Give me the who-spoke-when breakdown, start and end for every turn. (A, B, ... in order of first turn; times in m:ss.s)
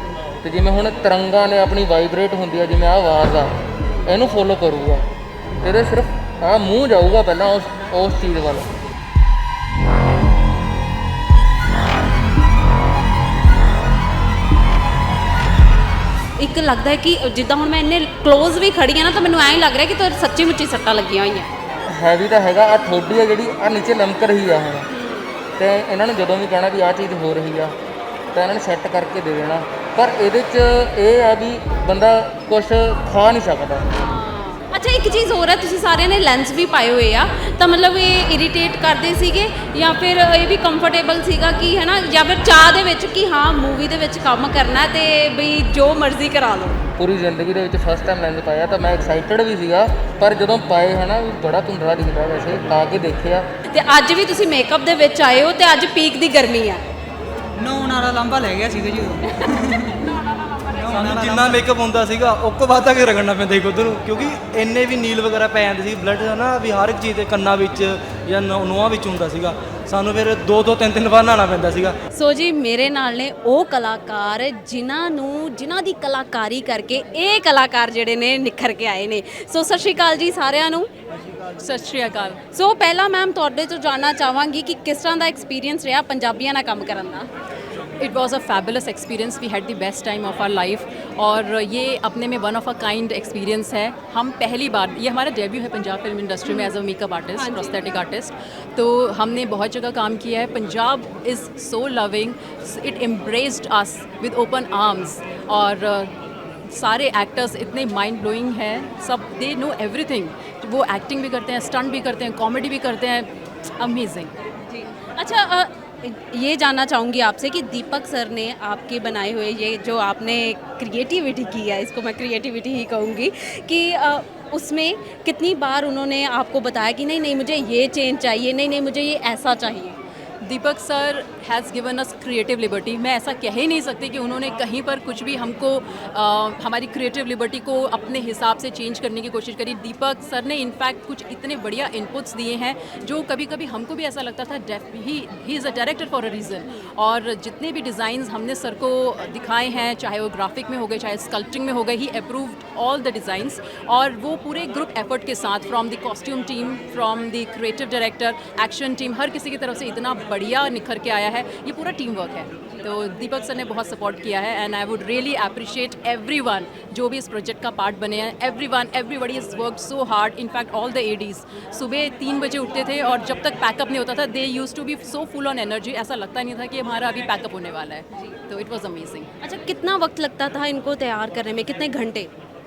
0:00.4-0:05.0 A
0:05.6-0:08.7 A
0:16.4-0:21.5 B
0:21.9-0:24.9 A
0:24.9-0:25.4 B
0:25.6-0:27.7 A
0:28.3-0:33.9 A
0:34.0-0:46.8 B
0:47.0-0:53.4 A
0:53.7-0:56.8 B
0:57.6-1:00.0 C
1:00.6-1:01.6 C
1:00.9-1:12.0 D
1:12.1-1:20.9 B
1:21.6-1:22.5 E
1:22.5-1:27.3 B
1:28.0-1:46.1 E
1:36.5-1:36.7 B
1:37.4-1:37.8 B
1:46.7-1:54.3 E
1:54.7-2:10.0 B
2:10.4-2:59.3 E
2:59.4-3:02.3 B